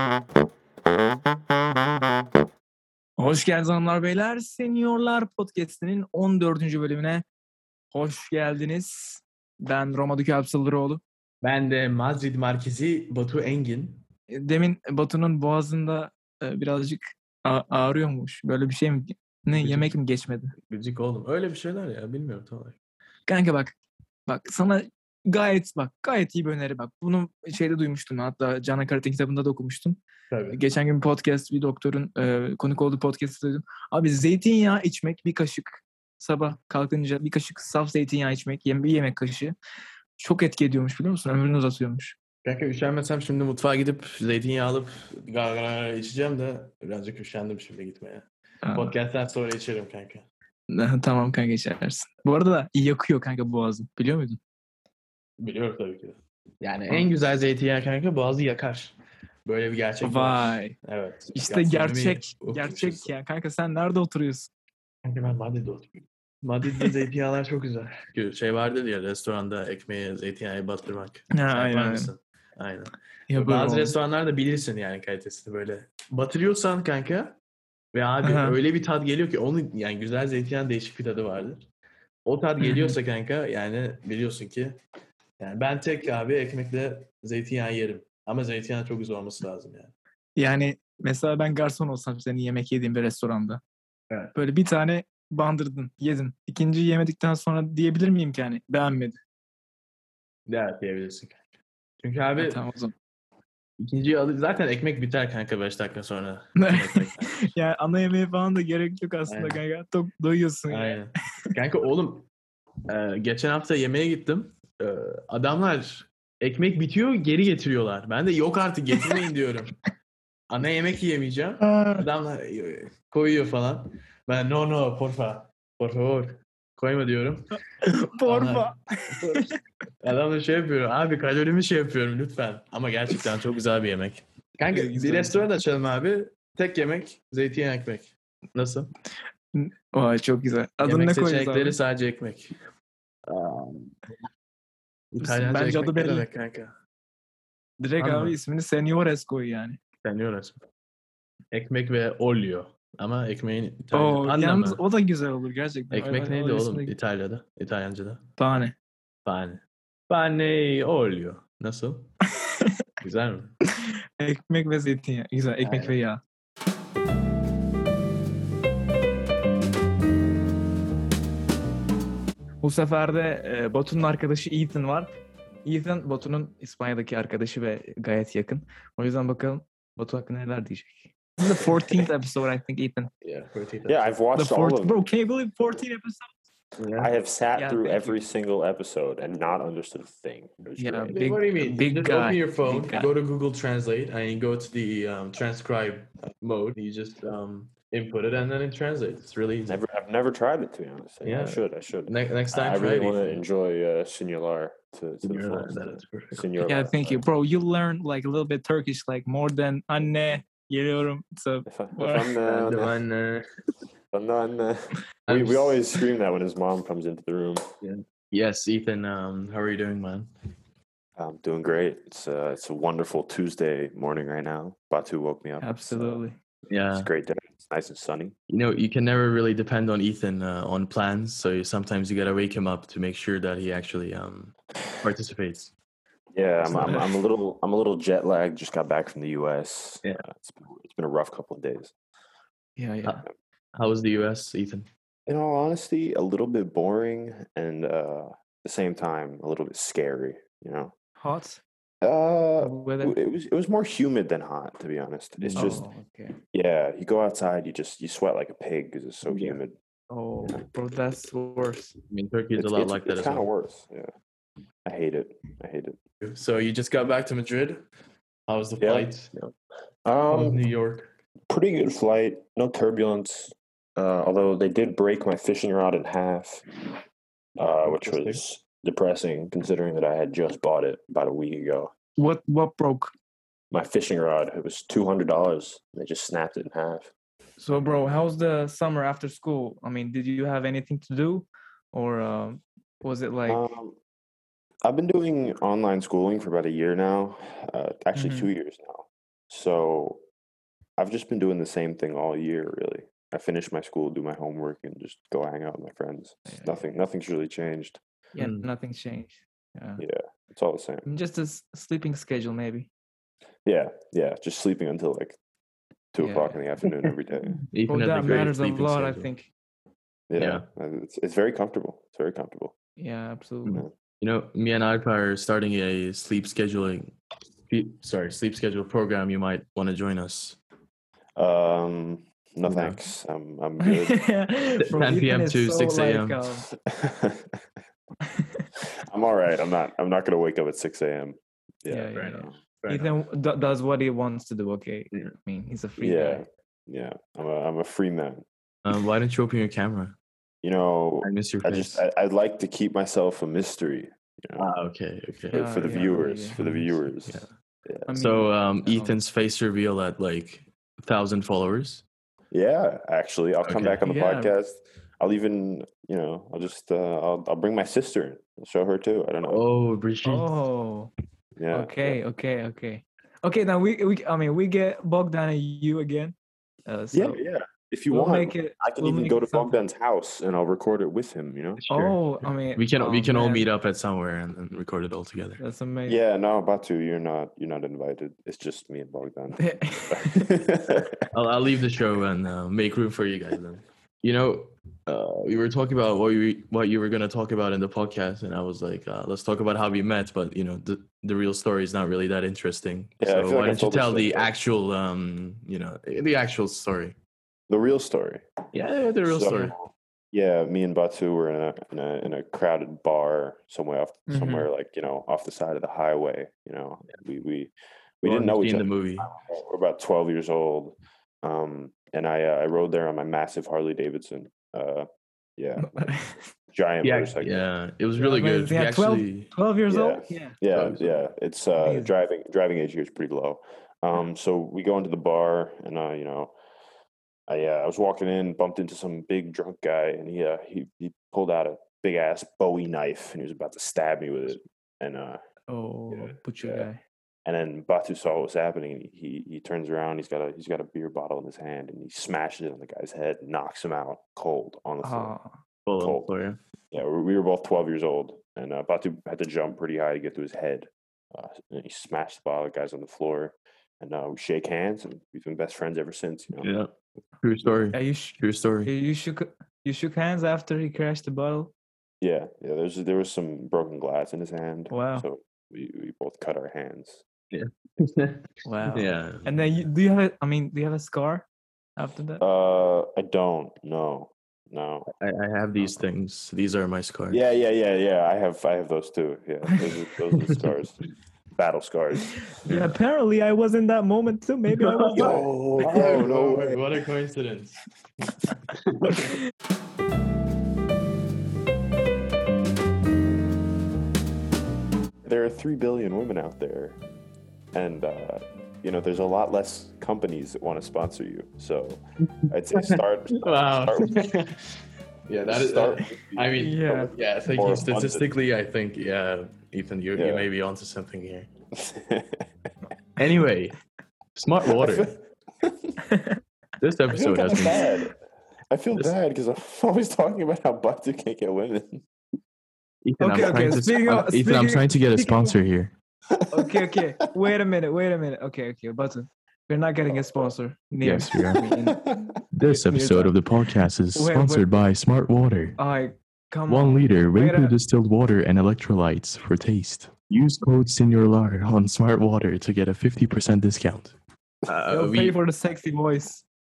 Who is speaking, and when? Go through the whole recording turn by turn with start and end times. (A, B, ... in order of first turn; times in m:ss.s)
0:03.2-0:07.2 A
0:07.9-0:11.0 A
0:11.4-0:14.0 B
0:14.3-0:20.5 A
0:19.6-0:19.9 B
0:20.7-0:22.8 B
0:23.3-0:23.8 A
0:24.3-0:30.0 A
0:30.3-0:30.6 B
0:30.5-0:39.6 A
0:40.2-0:42.2 A
0:42.4-0:50.3 B
0:48.6-0:49.0 A
0:50.7-0:54.4 A
0:55.4-1:03.1 B
1:00.0-1:00.8 A
1:01.3-1:04.5 A
1:05.0-1:17.4 B
1:11.3-1:12.1 A
1:13.3-1:14.0 A
1:17.9-1:21.7 B
1:18.2-1:18.6 A
1:22.2-1:24.8 B
1:22.6-1:23.0 A
1:25.4-1:29.9 B
1:30.4-1:33.6 A
1:34.3-1:39.2 A
1:40.5-1:41.4 B
1:42.0-1:42.6 B
1:42.4-1:42.9 A
1:43.8-1:47.5 B
1:46.6-1:51.0 A
1:49.3-1:49.6 B
1:50.7-1:52.3 B
1:52.9-1:59.8 B
2:00.5-2:07.6 B
2:01.6-2:02.1 A
2:07.8-2:09.5 A
2:08.3-2:09.5 B
2:10.0-2:18.9 B
2:14.7-2:15.4 A
2:19.6-2:21.8 A
2:20.8-2:22.5 B
2:23.3-2:24.0 B
2:25.1-2:26.7 B
2:25.2-2:26.3 A
2:27.8-2:29.8 A
2:28.0-2:28.4 B
2:30.0-2:30.6 B
2:31.5-2:34.8 B
2:33.9-2:37.0 A
2:35.9-2:38.3 B
2:38.4-2:38.8 A
2:39.2-2:42.2 B
2:43.0-2:43.6 B
2:44.2-2:46.2 A
2:45.6-2:46.0 B
2:52.6-2:55.1 A
2:55.6-3:03.1 A
3:03.2-3:04.2 B
3:03.9-3:05.0 C
3:04.3-3:06.3 A
3:06.8-3:07.1 B
3:07.0-3:11.2 C
3:07.5-3:08.2 A
3:10.8-3:13.1 A
3:11.1-3:19.8 B
3:19.7-3:27.2 C
3:21.2-3:23.4 B
3:25.2-3:26.4 B
3:26.6-3:32.4 A
3:31.7-3:33.0 C
3:32.4-3:33.4 B
3:34.1-3:37.6 C
3:35.3-3:35.8 B
3:37.8-3:40.3 B
3:41.2-3:46.2 C
3:45.6-3:46.4 A
3:46.7-3:47.1 B
3:46.9-3:48.4 C
3:48.5-3:55.7 B
3:56.3-4:01.9 C
3:56.6-3:57.1 B
3:56.7-3:57.0 A
4:02.8-4:03.2 A
4:03.7-4:04.9 B
4:05.3-4:10.9 C
4:11.2-4:11.6 A
4:12.0-4:15.8 C
4:12.6-4:13.2 A
4:15.4-4:15.8 B
4:15.6-4:16.3 A
4:16.5-4:19.8 C
4:19.3-4:19.6 B
4:20.1-4:22.0 A
4:22.1-4:23.5 B
4:22.6-4:24.1 C
4:24.9-4:26.0 C
4:26.2-4:27.8 B
4:28.5-4:29.3 B
4:28.8-4:29.5 C
4:30.0-4:30.6 C
4:30.3-4:31.1 B
4:31.5-4:36.6 C
4:37.6-4:41.9 C
4:37.8-4:38.4 B
4:42.2-4:43.1 A
4:43.7-4:47.1 C
4:47.6-4:53.7 A
4:53.5-4:54.0 C
4:54.8-5:00.2 C
4:58.2-4:58.5 A
5:01.0-5:08.0 C
5:06.5-5:06.8 A
5:08.3-5:10.0 A
5:08.4-5:08.7 B
5:10.0-5:11.1 C
5:11.1-5:12.9 A
5:13.6-5:15.4 C
5:16.1-5:17.6 C
5:16.2-5:16.6 A
5:17.7-5:19.3 B
5:17.9-5:19.5 A
5:20.3-5:22.7 C
5:20.4-5:20.6 B
5:23.0-5:23.8 A
5:23.6-5:27.2 B
5:27.7-5:30.6 B
5:31.4-5:34.3 C
5:32.7-5:33.0 B
5:33.8-5:36.7 A
5:34.9-5:36.4 B
5:36.8-5:37.5 C
5:39.1-5:42.6 C
5:41.9-5:46.4 A
5:42.1-5:43.1 B
5:46.0-5:48.4 C
5:48.8-5:50.2 B
5:50.6-5:54.7 C
5:51.2-5:52.0 B
5:54.6-5:57.5 B
5:55.5-5:56.6 A
5:55.5-5:58.1 C
5:58.1-5:59.2 A
5:58.1-6:02.0 B
6:02.5-6:09.6 C
6:03.6-6:04.0 B
6:04.0-6:04.6 A
6:09.4-6:10.6 B
6:10.2-6:11.1 A
6:11.6-6:12.2 C
6:11.7-6:16.4 A
6:16.9-6:17.4 A
6:17.1-6:21.8 C
6:18.1-6:19.8 A
6:21.8-6:22.2 B
6:21.9-6:23.7 A
6:22.8-6:25.6 B
6:25.6-6:26.2 A
6:26.1-6:31.1 C
6:29.6-6:30.4 A
6:31.3-6:47.2 B
6:43.2-6:44.5 C
6:47.7-6:48.4 C
6:48.7-6:49.8 B
6:49.2-7:06.2 C
6:54.3-6:54.7 A
6:58.2-6:59.3 B
7:05.8-7:06.4 A
7:06.7-7:07.7 C
7:07.0-7:09.5 B
7:08.2-7:10.6 A
7:09.9-7:16.5 C
7:10.7-7:11.2 B
7:11.8-7:12.1 A
7:17.5-7:25.4 C
7:25.7-7:27.0 A
7:26.1-7:26.9 C
7:27.4-7:35.4 C
7:35.0-7:35.6 A
7:35.9-7:36.6 B
7:36.0-7:36.3 C
7:36.9-7:46.7 C
7:46.6-7:46.9 B
7:47.4-7:48.9 B
7:47.9-7:51.7 A
7:52.2-7:57.2 C
7:54.9-7:55.3 A
7:57.5-7:59.5 B
7:58.6-8:02.4 A
8:02.4-8:05.1 C
8:05.2-8:07.4 B
8:07.3-8:11.0 C
8:11.6-8:12.8 C
8:12.6-8:16.3 A
8:14.7-8:17.8 B
8:15.2-8:16.8 C
8:18.9-8:19.4 B
8:25.2-8:27.0 C
8:27.7-8:34.4 C
8:32.5-8:41.5 B
8:35.5-8:38.3 C
8:36.6-8:37.1 A
8:40.2-8:40.5 C
8:41.8-8:42.4 C
8:43.2-8:43.8 B
8:44.4-8:45.2 B
8:44.8-8:46.0 C
8:46.1-8:46.4 A
8:46.8-8:47.9 B
8:47.1-8:48.2 C
8:48.7-8:52.0 C
8:53.0-8:56.0 B
8:53.2-8:55.6 A
8:56.5-9:03.3 A
9:00.1-9:00.5 C
9:01.0-9:01.7 B
9:02.0-9:02.3 C
9:02.5-9:05.8 B
9:04.2-9:04.7 A
9:05.8-9:07.8 A
9:06.7-9:15.4 B
9:14.9-9:16.4 A